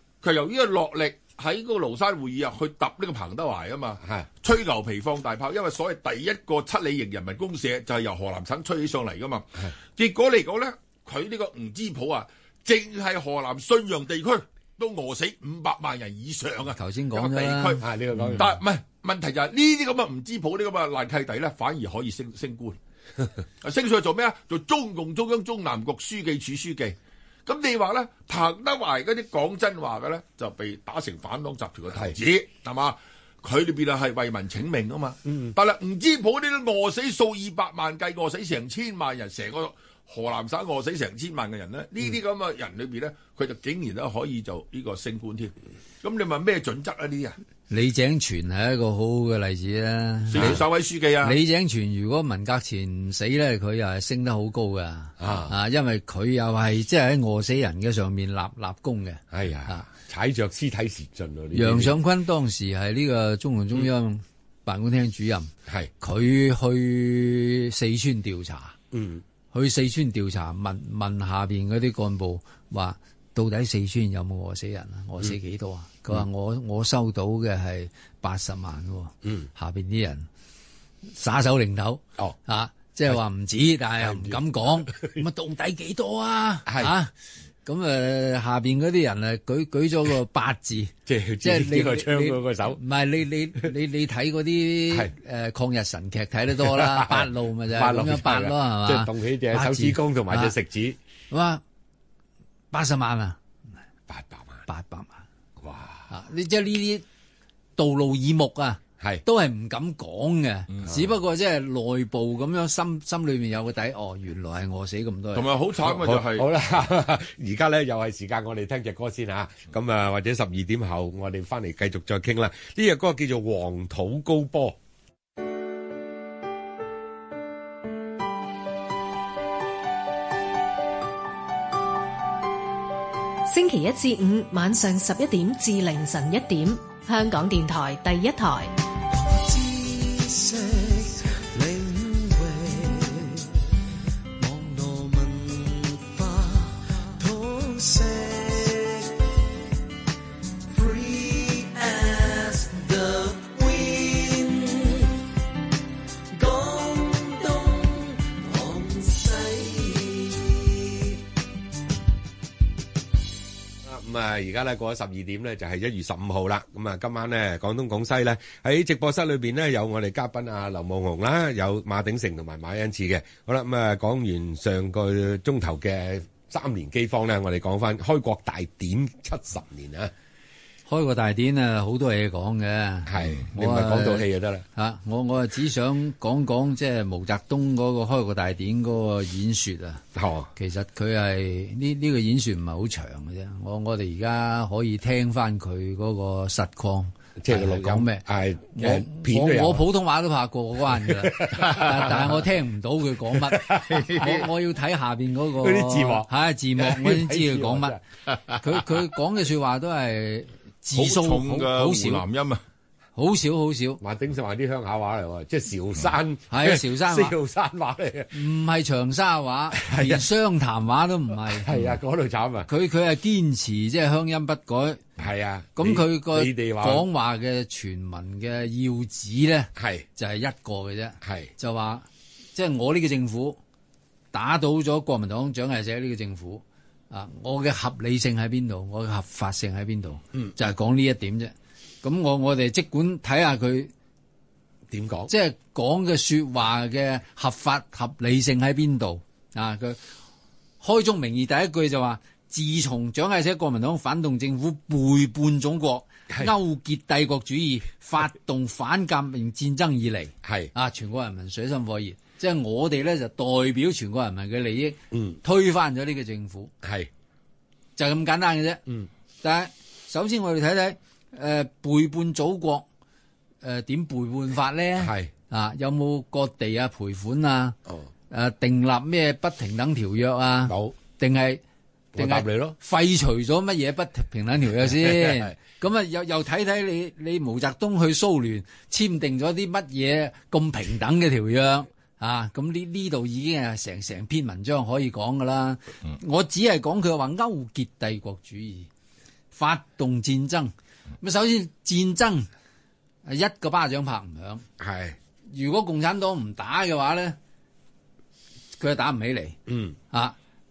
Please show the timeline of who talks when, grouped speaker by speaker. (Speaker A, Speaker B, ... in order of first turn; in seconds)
Speaker A: 0.2-22.8, 23.6-47.4, 50.3-51.4, 115.3-116.5, 203.9-204.2, 210.9-212.6
Speaker B: 16.8-17.8, 47.7-50.6, 51.2-59.8, 61.5-68.8, 69.5-80.3, 81.1-87.1, 87.6-100.5, 101.3-101.6, 102.7-103.4, 104.7-105.2, 106.1-107.0, 107.8-115.5, 180.9-208.0, 208.5-212.2, 213.2-214.0, 216.5-217.3, 218.3-221.7, 222.7-225.1, 225.8-233.6, 234.3-243.9, 245.3-250.0, 250.8-266.7, 268.0-268.8, 269.4-272.9, 273.6-277.8, 278.3-281.6, 282.1-298.9, 299.5-302.5, 303.2-304.6, 305.5-307.4, 308.8-309.6, 310.1-310.4
Speaker C: 17.8-18.6, 35.3-35.5, 50.4-50.6, 55.2-55.5, 59.3-62.0, 68.9-69.2, 84.0-85.2, 86.7-87.0, 91.1-92.8, 96.6-101.0, 104.1-104.6, 105.6-106.1, 115.8-124.8, 163.8-180.1, 183.1-184.6, 190.1-190.5, 197.4-199.8, 201.0-202.5, 203.3-204.5, 205.6-208.8, 214.0-218.3, 219.7-220.3, 221.4-222.7, 225.2-227.1, 229.8-230.1, 231.2-231.5, 244.9-245.3, 260.4-260.7, 266.8-267.1, 275.0-275.3, 280.6-280.9, 282.1-282.8, 284.9-285.5, 304.8-305.2, 309.7-309.9
Speaker D: 133.5-138.7
Speaker E: 138.9-143.5, 144.4-149.3, 150.7-155.2, 156.3-161.2